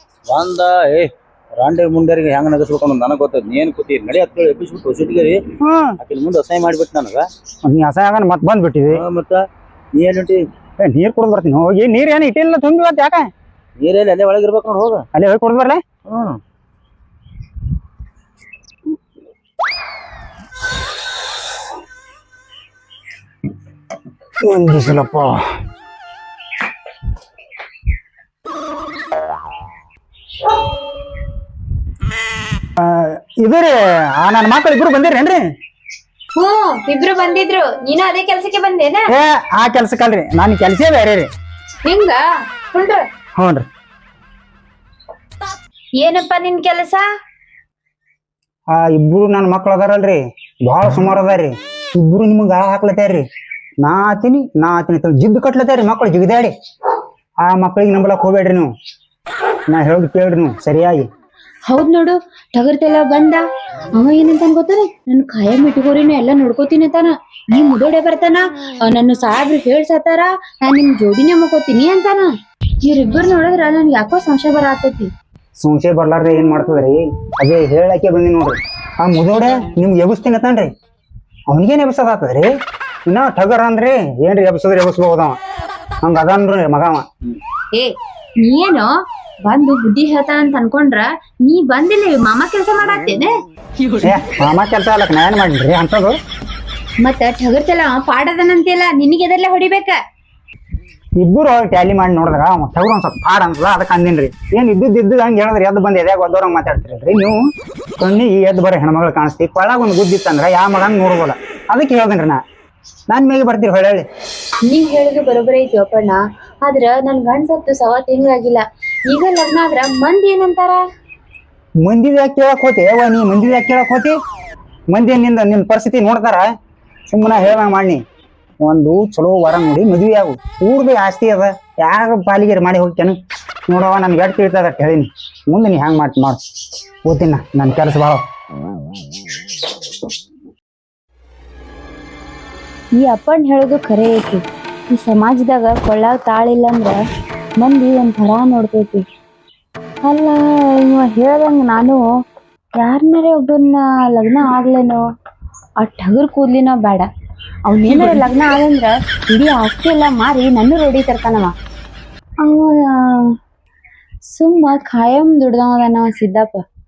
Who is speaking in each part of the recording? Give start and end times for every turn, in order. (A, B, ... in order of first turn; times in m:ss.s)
0:00.3-0:05.4 A
0:05.6-0:06.0 B
0:06.0-0:07.2 A
0:07.6-0:09.0 B
0:08.9-0:09.4 A
0:09.9-0:10.4 A
0:10.8-0:13.3 B
0:13.8-0:15.0 A
0:15.1-0:15.8 B
0:16.1-0:16.4 A
0:24.4-0:25.4 B
0:32.8-0:35.4 B
0:36.4-0:39.0 C
0:39.1-0:41.3 B
0:41.8-0:43.0 C
0:43.4-0:43.6 B
0:46.0-0:47.0 C
0:48.7-0:53.2 B
0:53.8-0:56.5 B
0:57.4-0:58.7 B
0:59.7-1:01.1 B
1:01.7-1:03.4 C
1:03.9-1:12.3 C
1:12.8-1:15.1 C
1:15.6-1:20.7 B
1:21.5-1:22.5 B
1:23.1-1:25.4 B
1:26.0-1:27.0 B
1:27.7-1:28.9 C
1:29.4-1:33.3 C
1:34.0-1:36.2 B
1:37.0-1:40.0 C
1:41.2-1:47.4 B
1:48.0-1:52.4 B
1:53.1-1:54.0 B
1:54.7-2:00.8 C
2:01.8-2:04.1 B
2:04.9-2:06.5 B
2:07.1-2:08.0 B
2:08.6-2:16.4 B
2:17.0-2:18.2 B
2:23.0-2:27.0 C
2:27.6-2:29.0 C
2:30.0-2:32.0 C
2:32.8-2:35.0 C
2:35.8-2:37.1 C
2:37.7-2:41.5 C
2:42.4-2:43.3 C
2:44.3-2:46.6 C